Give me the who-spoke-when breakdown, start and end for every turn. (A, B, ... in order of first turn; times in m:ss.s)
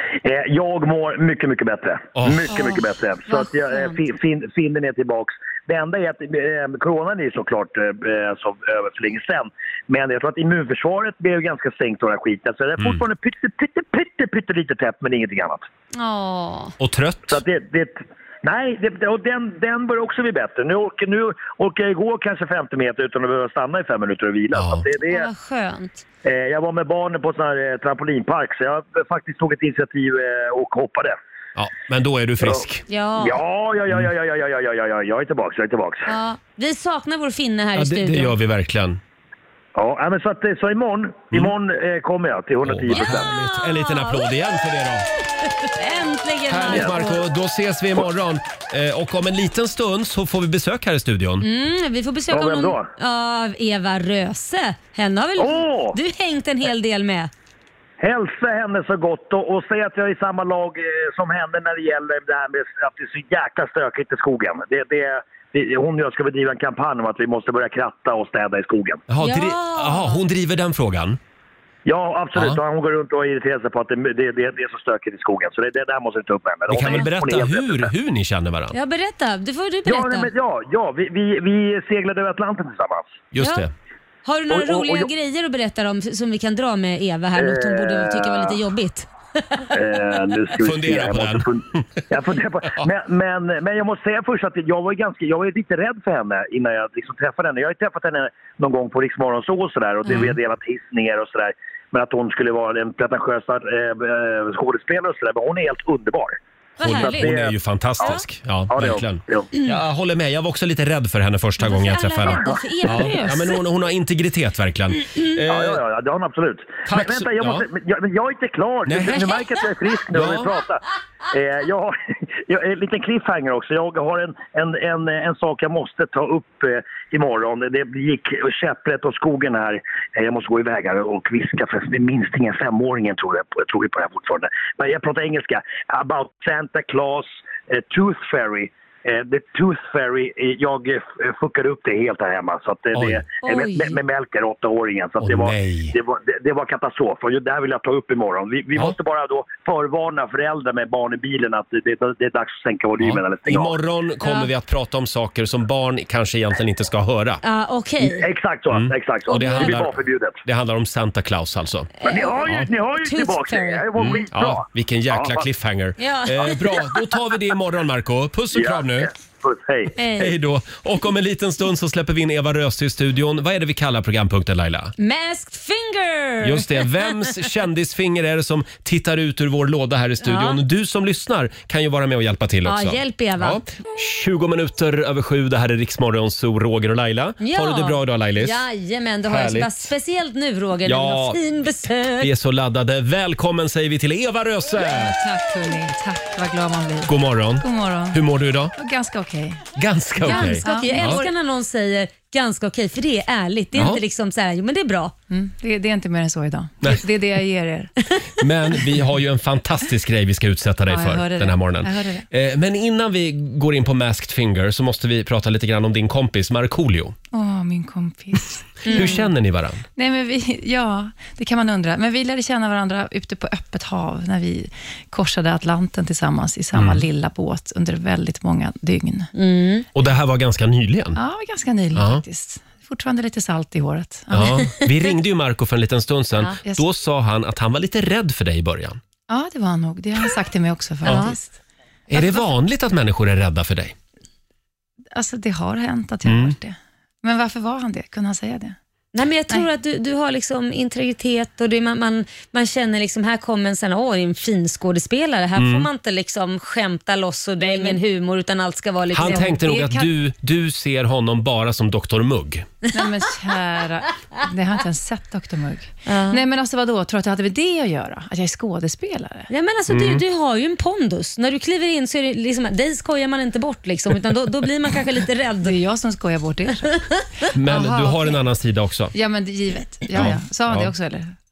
0:00.2-0:15.6 A
0:02.2-0:02.5 B
0:02.5-0:04.0 C
0:12.8-0:13.0 B
0:16.0-0:16.8 C
0:16.8-0:17.4 B
0:17.3-0:25.3 A
0:24.5-0:24.9 B
0:25.1-0:26.0 C
0:26.2-0:31.2 A
0:31.6-0:32.8 B
0:32.9-0:33.4 C
0:33.2-0:36.1 A
0:36.1-0:38.4 C
0:37.8-0:39.0 B
0:39.8-0:43.3 A
0:42.6-0:45.1 B
0:42.9-0:44.3 C
0:45.5-0:47.2 C
0:46.5-0:51.5 B
0:51.4-0:57.3 C
0:52.3-0:52.9 A
0:55.4-0:56.0 A
0:58.0-1:09.0 A
1:09.1-1:11.2 B
1:09.2-1:10.2 C
1:11.9-1:17.9 A
1:12.4-1:12.6 B
1:16.7-1:18.8 B
1:18.7-1:20.3 C
1:19.9-1:23.2 A
1:23.3-1:23.7 B
1:23.4-1:23.7 C
1:24.2-1:29.7 C
1:24.5-1:25.1 A
1:27.4-1:28.6 A
1:29.7-1:47.5 A
1:30.6-1:31.8 B
1:40.1-1:40.4 C
1:46.8-1:47.3 C
1:46.8-1:55.8 B
1:48.7-1:49.5 A
1:51.6-1:53.6 C
1:55.0-1:55.4 C
1:55.5-2:33.8 A
1:56.9-1:57.7 B
1:58.9-1:59.5 B
2:00.1-2:00.6 B
2:22.9-2:23.2 B
2:23.4-2:24.0 C
2:25.2-2:26.0 B
2:33.0-2:37.4 B
2:34.2-2:34.5 C
2:37.4-2:38.2 C
2:38.2-2:40.4 A
2:38.7-2:41.9 B
2:39.3-2:39.8 C
2:42.0-2:44.2 C
2:42.0-2:45.4 A
2:44.0-2:49.1 B
2:46.0-2:46.8 C
2:48.5-2:49.9 A
2:50.0-2:50.3 C
2:50.2-2:54.9 B
2:55.0-2:56.9 C
2:56.4-3:08.6 B
3:00.2-3:00.6 C
3:02.6-3:03.6 C
3:07.4-3:12.3 C
3:09.3-3:09.9 B
3:10.8-3:11.4 B
3:12.2-3:15.2 B
3:14.8-3:18.2 D
3:17.1-3:18.7 B
3:18.8-3:19.6 D
3:19.8-3:21.3 B
3:20.2-3:25.1 C
3:20.3-3:21.2 D
3:23.7-3:24.0 B
3:25.3-3:27.9 D
3:28.4-3:37.2 B
3:30.9-3:32.2 D
3:37.3-3:39.3 D
3:38.9-3:39.2 C
3:38.9-3:39.8 B
3:40.0-3:49.3 D
3:46.7-3:47.1 B
3:49.4-3:49.8 C
3:49.9-3:51.2 B
3:51.2-3:54.6 D
3:52.0-3:52.2 B
3:54.3-3:59.0 B
3:56.4-3:56.8 D
3:59.3-4:01.5 D
4:01.0-4:01.3 B
4:01.0-4:01.4 C
4:02.1-4:02.5 D
4:02.1-4:04.0 B
4:05.1-4:08.8 D
4:06.2-4:06.6 B
4:09.1-4:19.6 C
4:15.6-4:15.9 B
4:17.6-4:18.0 D
4:19.1-4:22.7 B
4:19.2-4:20.1 D
4:22.9-4:29.5 D
4:26.1-4:26.4 C
4:29.5-4:35.8 C
4:29.9-4:30.2 B
4:35.6-4:36.9 D
4:37.5-4:39.1 B
4:37.7-4:38.4 D
4:39.1-4:41.3 D
4:40.1-4:40.9 B